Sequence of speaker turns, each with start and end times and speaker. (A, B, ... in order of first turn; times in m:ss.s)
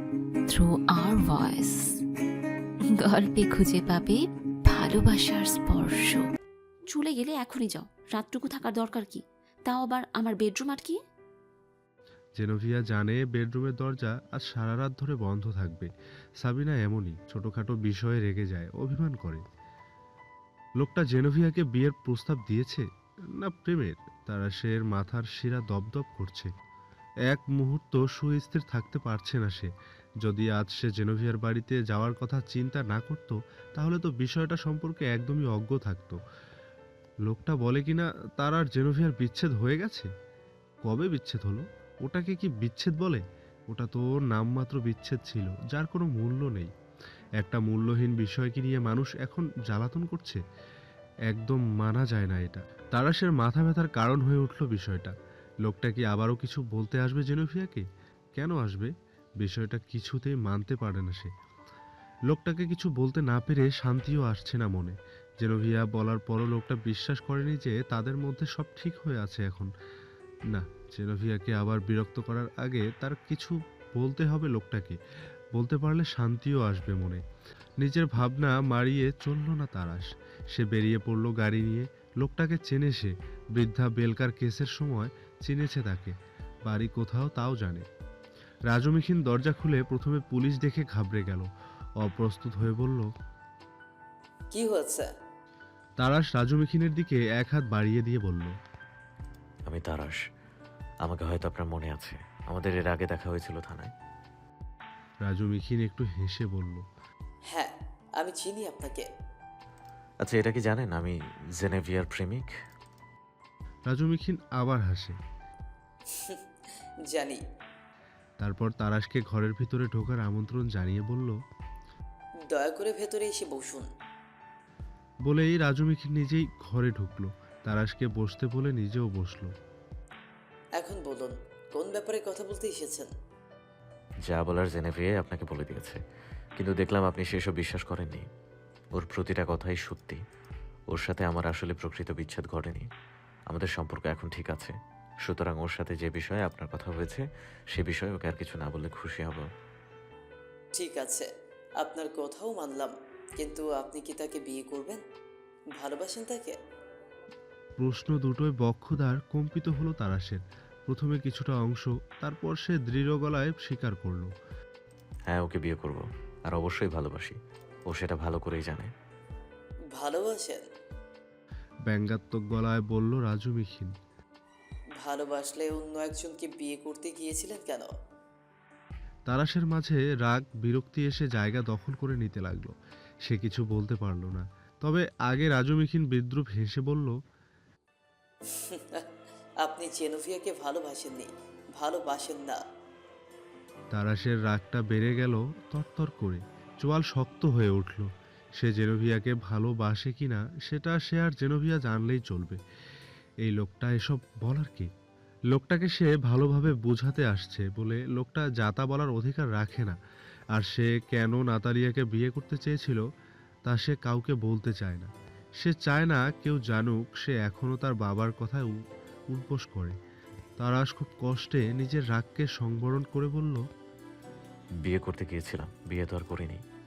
0:00.5-0:02.0 A
0:03.0-0:06.2 A
0:06.9-0:11.0 B
0:12.4-0:15.9 C
0:16.4-0:19.4 C
0:20.8-0:22.8 C
0:23.4-0:26.5 C
0:27.3-0:29.7 C
0:30.2-0:36.2 C
0:37.3-0:40.1 C
0:40.8-0:46.7 C
0:47.4-0:50.4 C
0:51.3-0:55.1 C
0:55.6-0:57.8 C
0:58.4-0:58.9 C
0:59.4-1:01.3 C
1:02.3-1:09.7 C
1:10.5-1:15.0 C
1:15.5-1:17.2 C
1:17.8-1:26.1 C
1:26.7-1:27.8 C
1:28.7-1:31.5 C
1:32.0-1:33.1 C
1:34.6-1:35.0 D
1:36.0-1:38.5 C
1:39.7-1:40.2 E
1:41.0-1:43.9 E
1:45.2-1:46.8 C
1:48.2-1:49.0 D
1:50.2-1:52.5 E
1:53.9-1:55.1 C
1:58.4-2:01.4 C
2:02.6-2:03.9 D
2:05.2-2:09.5 C
2:10.8-2:13.1 D
2:14.3-2:16.0 E
2:16.6-2:18.2 E
2:19.0-2:20.2 E
2:20.9-2:22.9 E
2:23.5-2:24.7 E
2:25.2-2:29.4 E
2:30.8-2:31.2 D
2:31.9-2:32.9 D
2:33.4-2:35.0 D
2:35.8-2:36.5 D
2:37.8-2:44.3 C
2:45.3-2:48.9 E
2:50.0-2:50.6 D
2:51.9-2:53.9 C
2:55.0-2:57.9 D
2:59.3-3:02.7 C
3:03.2-3:07.1 C
3:08.7-3:09.0 D
3:09.7-3:11.3 D
3:11.8-3:12.6 D
3:13.9-3:22.6 C
3:23.4-3:24.9 C
3:25.5-3:30.0 C
3:30.5-3:33.0 C
3:33.7-3:38.7 C
3:39.3-3:39.9 C
3:40.6-3:43.6 C
3:44.8-3:46.6 E